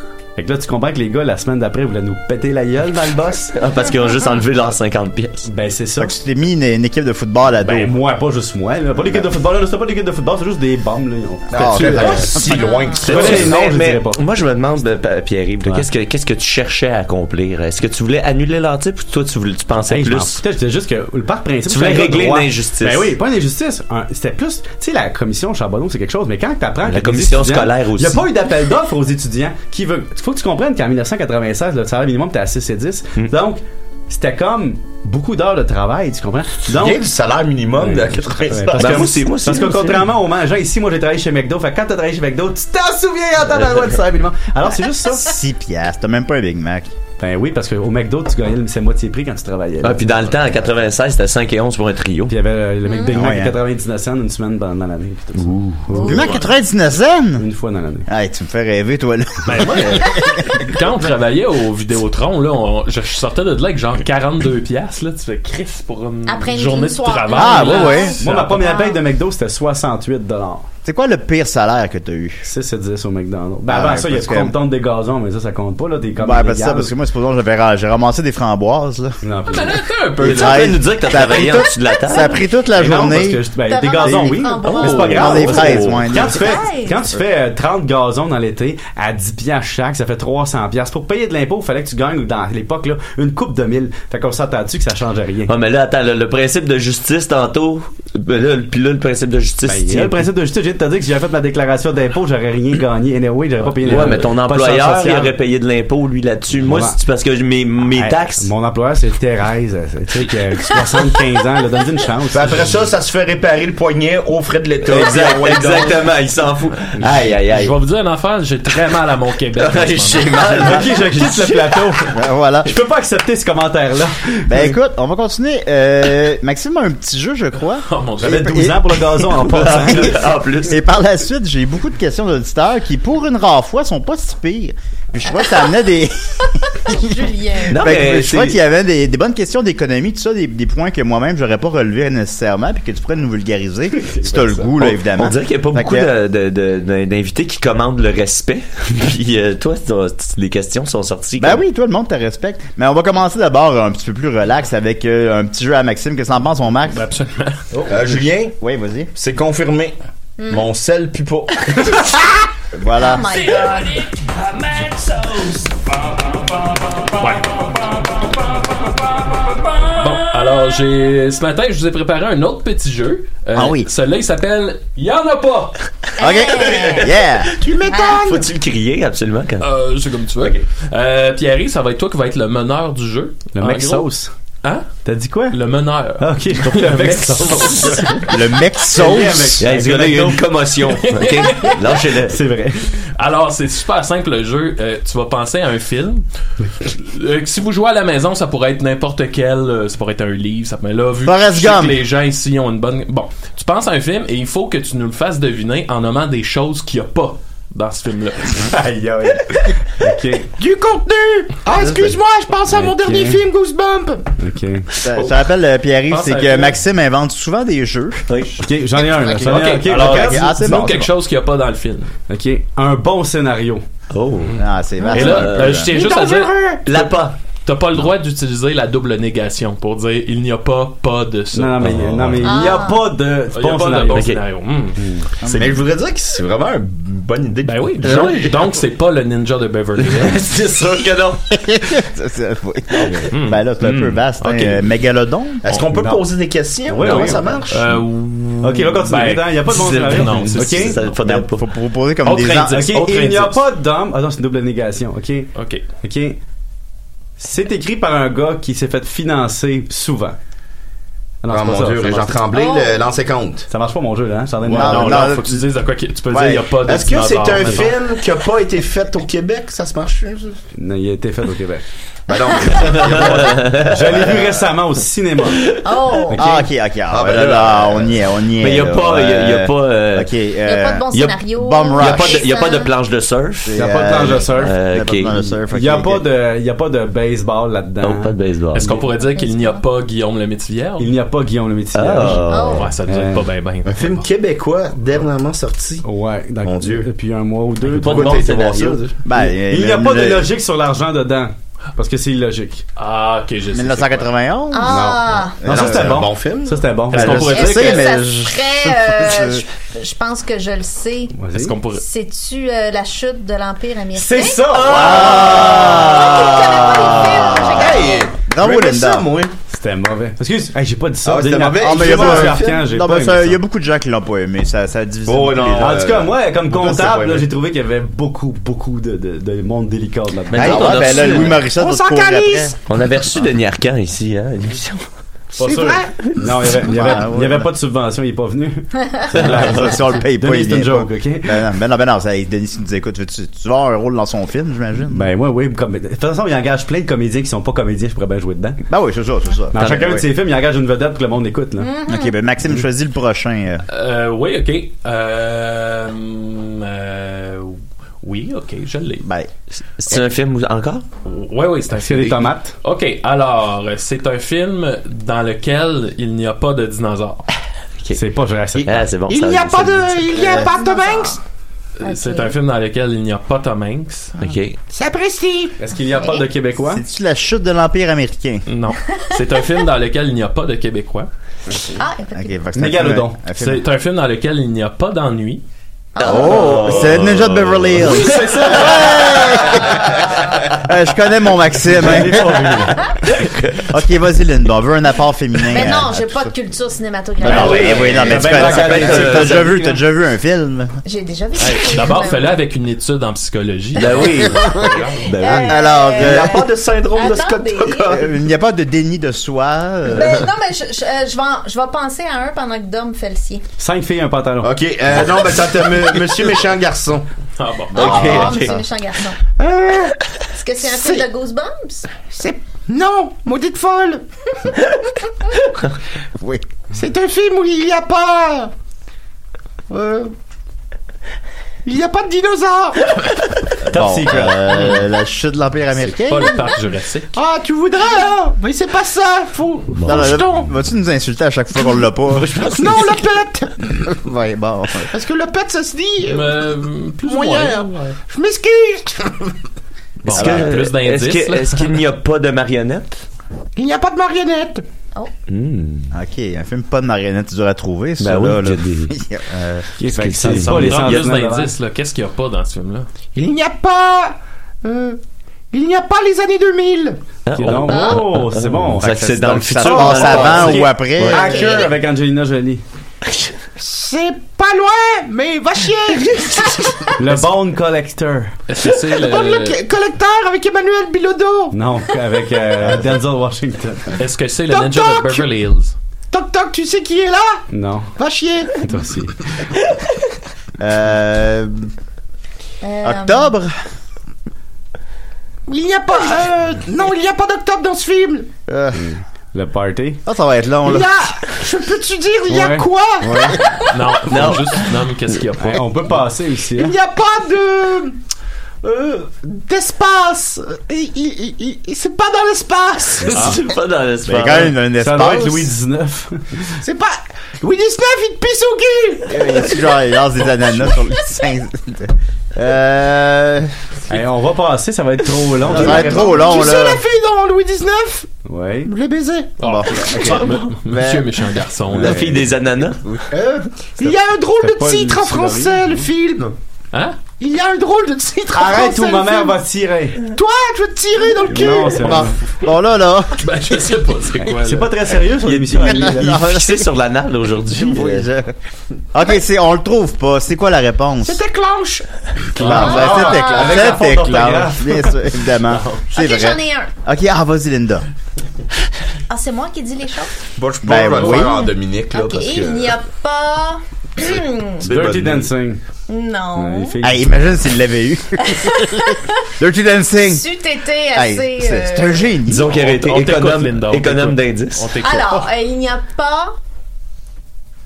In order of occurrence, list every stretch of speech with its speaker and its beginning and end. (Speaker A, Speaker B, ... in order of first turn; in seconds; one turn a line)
Speaker A: 0.4-3.5
Speaker B: 3.5-5.5
Speaker A: 5.5-6.1
Speaker C: 6.0-8.0
Speaker A: 7.6-12.3
Speaker D: 11.5-13.6
Speaker C: 11.5-12.8
Speaker E: 12.5-13.0
Speaker A: 13.0-14.2
Speaker B: 13.0-20.4
Speaker A: 19.9-37.0
Speaker B: 21.7-23.1
Speaker B: 26.9-28.2
Speaker D: 36.7-39.2
Speaker A: 37.8-45.3
Speaker B: 38.8-40.1
Speaker C: 45.1-46.9
Speaker A: 47.2-50.1
Speaker B: 49.8-52.3
Speaker A: 52.3-56.3
Speaker E: 52.9-53.2
Speaker C: 53.1-53.6
Speaker E: 55.9-56.3
Speaker C: 56.0-57.4
Speaker A: 57.4-58.1
Speaker C: 58.1-60.6
Speaker F: 59.5-68.5
Speaker E: 66.3-69.0
Speaker C: 67.3-68.2
Speaker A: 68.2-70.7
Speaker C: 70.8-72.5
Speaker A: 72.5-76.9
Speaker C: 73.7-74.5
Speaker C: 76.2-79.2
Speaker A: 79.2-79.7
Speaker F: 79.5-80.8
Speaker C: 80.2-83.4
Speaker B: 80.2-82.4
Speaker A: 82.7-95.5
Speaker E: 83.7-87.0
Speaker C: 84.0-86.6
Speaker B: 84.6-86.2
Speaker B: 95.5-100.2
Speaker A: 99.7-105.3
Speaker F: 103.7-104.2
Speaker B: 103.8-108.5
Speaker A: 106.5-107.0
Speaker A: 107.9-112.9
Speaker D: 112.3-116.1
Speaker B: 114.8-117.7
Speaker A: 117.0-117.3
Speaker F: 117.4-120.5
Speaker B: 119.6-121.9
Speaker A: 120.5-122.1
Speaker C: 122.2-122.7
Speaker A: 122.7-124.8
Speaker C: 124.5-146.1
Speaker F: 127.7-128.6
Speaker A: 128.2-130.3
Speaker B: 129.4-130.8
Speaker E: 136.9-137.8
Speaker B: 137.7-138.6
Speaker A: 144.0-144.7
Speaker B: 144.8-151.6
Speaker C: 151.4-157.1
Speaker F: 156.9-157.6
Speaker D: 157.9-158.6
Speaker C: 158.6-159.1
Speaker D: 159.1-160.0
Speaker D: 160.5-162.2
Speaker C: 162.7-163.5
Speaker E: 163.0-164.0
Speaker F: 163.6-164.0
Speaker F: 164.7-165.6
Speaker F: 167.2-167.6
Speaker F: 169.8-175.8
Speaker C: 173.6-173.9
Speaker E: 176.2-177.1
Speaker C: 176.2-177.5
Speaker G: 177.6-178.5
Speaker E: 177.9-178.2
Speaker B: 178.1-179.7
Speaker F: 179.6-184.1
Speaker A: 183.5-184.3
Speaker F: 184.6-188.2
Speaker A: 185.0-185.6
Speaker A: 186.2-188.3
Speaker C: 188.3-189.7
Speaker A: 188.9-190.6
Speaker B: 189.6-192.4
Speaker F: 191.0-192.0
Speaker A: 192.2-192.8
Speaker F: 193.2-196.2
Speaker F: 196.9-208.8
Speaker C: 201.2-202.0
Speaker A: 208.6-210.5
Speaker G: 210.6-214.3
Speaker A: 212.7-213.4
Speaker A: 214.4-215.0
Speaker C: 215.0-218.3
Speaker F: 216.1-216.8
Speaker B: 218.3-218.6
Speaker A: 218.6-220.9
Speaker F: 219.4-222.1
Speaker C: 219.9-221.1
Speaker A: 222.3-223.8
Speaker B: 224.1-224.6
Speaker F: 224.5-226.5
Speaker C: 224.6-225.9
Speaker B: 225.1-225.9
Speaker G: 225.9-227.1
Speaker B: 226.8-227.4
Speaker F: 227.7-232.3
Speaker A: 231.5-234.3
Speaker B: 231.8-232.5
Speaker E: 232.4-233.1
Speaker F: 233.5-235.1
Speaker B: 234.1-234.4
Speaker A: 235.0-235.3
Speaker C: 235.4-235.8
Speaker D: 235.5-238.6
Speaker F: 237.7-240.5
Speaker B: 240.0-241.6
Speaker C: 241.5-245.7
Speaker F: 243.3-243.7
Speaker B: 243.8-244.2
Speaker F: 244.4-244.9
Speaker D: 245.6-247.9
Speaker F: 245.7-246.1
Speaker A: 246.9-247.6
Speaker F: 247.1-251.0
Speaker A: 248.6-251.0
Speaker B: 249.7-251.7
Speaker C: 251.1-253.0
Speaker F: 252.2-253.7
Speaker A: 252.7-256.4
Speaker F: 255.6-255.9
Speaker A: 257.4-260.4
Speaker A: 261.4-262.4
Speaker D: 261.5-263.7
Speaker E: 262.5-263.0
Speaker A: 263.7-265.3
Speaker C: 264.7-265.6
Speaker F: 264.7-268.0
Speaker C: 266.3-266.7
Speaker D: 266.9-270.6
Speaker A: 270.8-271.8
Speaker D: 272.3-274.7
Speaker E: 272.6-273.0
Speaker B: 273.1-274.1
Speaker A: 273.4-275.7
Speaker E: 275.8-276.4
Speaker A: 276.3-276.7
Speaker C: 276.3-282.5
Speaker D: 277.1-278.2
Speaker B: 278.6-280.3
Speaker E: 280.6-282.9
Speaker B: 282.0-283.8
Speaker C: 283.7-286.2
Speaker A: 283.8-284.8
Speaker B: 284.6-285.4
Speaker A: 285.6-289.1
Speaker B: 288.0-288.9
Speaker F: 288.7-291.1
Speaker E: 289.1-289.9
Speaker A: 291.0-293.5
Speaker B: 291.9-292.9
Speaker E: 292.5-292.9
Speaker F: 292.6-294.3
Speaker D: 293.9-296.1
Speaker A: 296.0-302.8
Speaker D: 296.6-297.1
Speaker B: 297.9-299.1
Speaker D: 298.1-299.0
Speaker C: 299.2-300.5
Speaker F: 303.0-304.3
Speaker C: 303.7-306.3
Speaker E: 304.7-305.6
Speaker A: 304.8-307.5
Speaker D: 305.7-306.9
Speaker F: 307.1-308.2
Speaker C: 307.1-309.6
Speaker E: 307.5-311.3
Speaker A: 311.3-311.8
Speaker F: 311.5-312.0
Speaker E: 311.9-318.3
Speaker A: 314.1-315.3
Speaker C: 314.8-319.3
Speaker D: 314.9-319.6
Speaker B: 315.0-316.0
Speaker A: 319.7-323.6
Speaker D: 321.2-322.9
Speaker C: 321.8-326.1
Speaker D: 325.3-327.5
Speaker A: 325.8-331.4
Speaker B: 330.5-331.6
Speaker C: 330.6-332.7
Speaker G: 331.2-332.8
Speaker B: 332.9-335.1
Speaker G: 335.6-336.3
Speaker A: 335.6-341.7
Speaker C: 336.9-337.7
Speaker B: 339.4-340.0
Speaker C: 339.4-345.3
Speaker A: 345.1-348.8
Speaker C: 348.9-350.2
Speaker A: 349.7-351.9
Speaker E: 351.8-352.4
Speaker C: 352.1-353.9
Speaker F: 353.9-359.3
Speaker C: 359.2-359.5
Speaker B: 360.0-361.1
Speaker F: 361.2-367.5
Speaker A: 361.9-362.8
Speaker A: 368.1-369.1
Speaker B: 368.8-370.2
Speaker G: 369.3-371.4
Speaker E: 370.5-371.4
Speaker F: 372.0-374.4
Speaker E: 372.0-372.5
Speaker B: 374.4-374.8
Speaker G: 374.9-375.8
Speaker A: 375.8-377.0
Speaker E: 376.1-376.5
Speaker C: 376.9-378.6
Speaker F: 378.7-381.3
Speaker E: 382.0-382.6
Speaker C: 382.3-383.9
Speaker A: 382.8-383.5
Speaker F: 383.5-385.6
Speaker E: 386.1-386.9
Speaker B: 386.2-389.2
Speaker C: 386.2-392.9
Speaker F: 388.0-389.6
Speaker A: 391.9-393.1
Speaker B: 393.4-393.8
Speaker C: 393.9-396.5
Speaker E: 395.7-398.2
Speaker C: 397.4-401.0
Speaker B: 397.4-399.8
Speaker A: 397.6-400.0
Speaker E: 401.1-402.6
Speaker F: 401.6-405.2
Speaker B: 404.0-405.8
Speaker E: 404.2-408.2
Speaker C: 404.5-406.7
Speaker D: 406.1-408.3
Speaker C: 408.1-410.5
Speaker E: 410.1-413.6
Speaker A: 413.8-414.7
Speaker D: 414.6-417.3
Speaker F: 417.6-418.5
Speaker C: 417.9-418.8
Speaker E: 417.9-419.4
Speaker B: 418.0-418.7
Speaker G: 419.6-420.1
Speaker E: 420.5-422.1
Speaker G: 420.8-421.3
Speaker G: 422.3-424.2
Speaker C: 426.4-426.7
Speaker G: 426.9-428.7
Speaker G: 429.9-430.3
Speaker G: 431.9-433.1
Speaker A: 433.9-434.9
Speaker C: 433.9-436.7
Speaker F: 436.1-437.3
Speaker G: 437.3-440.7
Speaker B: 440.0-440.3
Speaker C: 440.0-442.7
Speaker B: 442.4-443.0
Speaker G: 442.7-444.1
Speaker C: 444.1-445.1
Speaker G: 445.1-446.6
Speaker F: 446.2-448.2
Speaker G: 447.2-449.5
Speaker F: 450.2-452.0
Speaker B: 450.3-453.2
Speaker C: 450.3-450.7
Speaker G: 453.8-454.8
Speaker B: 455.5-456.1
Speaker C: 456.1-459.9
Speaker B: 458.2-459.1
Speaker B: 460.0-461.3
Speaker A: 460.0-461.7
Speaker F: 460.6-463.1
Speaker G: 463.4-465.2
Speaker G: 465.7-467.2
Speaker B: 467.5-471.6
Speaker A: 467.6-472.8
Speaker E: 467.9-468.2
Speaker C: 469.4-471.6
Speaker G: 471.4-471.9
Speaker E: 471.5-471.9
Speaker G: 473.8-477.3
Speaker A: 477.2-478.6
Speaker F: 478.7-479.8
Speaker G: 478.8-481.8
Speaker A: 481.7-484.2
Speaker F: 484.2-485.9
Speaker G: 484.7-485.5
Speaker G: 486.3-487.6
Speaker A: 487.7-488.1
Speaker G: 488.2-488.9
Speaker A: 488.8-489.4
Speaker C: 490.8-491.9
Speaker E: 492.8-493.5
Speaker C: 493.0-493.8
Speaker G: 495.7-498.5
Speaker C: 498.7-499.0
Speaker A: 499.0-500.2
Speaker C: 500.3-501.1
Speaker G: 500.9-503.6
Speaker A: 502.5-503.6
Speaker F: 503.9-506.0
Speaker B: 504.3-504.7
Speaker A: 505.6-506.9
Speaker G: 506.7-508.2
Speaker G: 508.8-513.4
Speaker B: 513.3-514.8
Speaker C: 514.3-515.7
Speaker A: 515.0-516.8
Speaker G: 516.8-519.9
Speaker C: 519.3-523.7
Speaker A: 524.1-526.5
Speaker C: 525.6-527.0
Speaker G: 525.7-528.3
Speaker A: 528.5-528.9
Speaker G: 528.9-529.6
Speaker C: 529.6-531.3
Speaker F: 529.6-532.2
Speaker B: 532.0-533.0
Speaker A: 532.0-532.4
Speaker G: 533.3-536.5
Speaker A: 534.6-536.0
Speaker F: 536.9-537.2
Speaker G: 537.3-539.6
Speaker A: 538.5-540.3
Speaker G: 540.3-542.3
Speaker A: 541.5-542.4
Speaker C: 542.0-543.5
Speaker F: 543.4-545.1
Speaker A: 544.4-546.4
Speaker B: 545.3-548.3
Speaker C: 545.8-546.9
Speaker C: 547.8-548.5
Speaker C: 549.1-551.4
Speaker G: 551.2-552.1
Speaker C: 552.6-558.1
Speaker F: 552.6-553.4
Speaker A: 552.6-555.2
Speaker E: 552.8-553.9
Speaker F: 555.7-556.0
Speaker E: 556.1-556.9
Speaker E: 559.3-560.3
Speaker D: 560.6-563.0
Speaker C: 560.8-561.7
Speaker E: 562.1-564.9
Speaker A: 564.8-565.8
Speaker D: 564.8-565.5
Speaker E: 566.1-567.0
Speaker A: 566.5-567.5
Speaker C: 567.0-570.4
Speaker E: 568.4-569.3
Speaker E: 570.2-572.3
Speaker C: 571.1-572.7
Speaker B: 572.5-574.9
Speaker F: 572.6-575.5
Speaker E: 575.0-576.5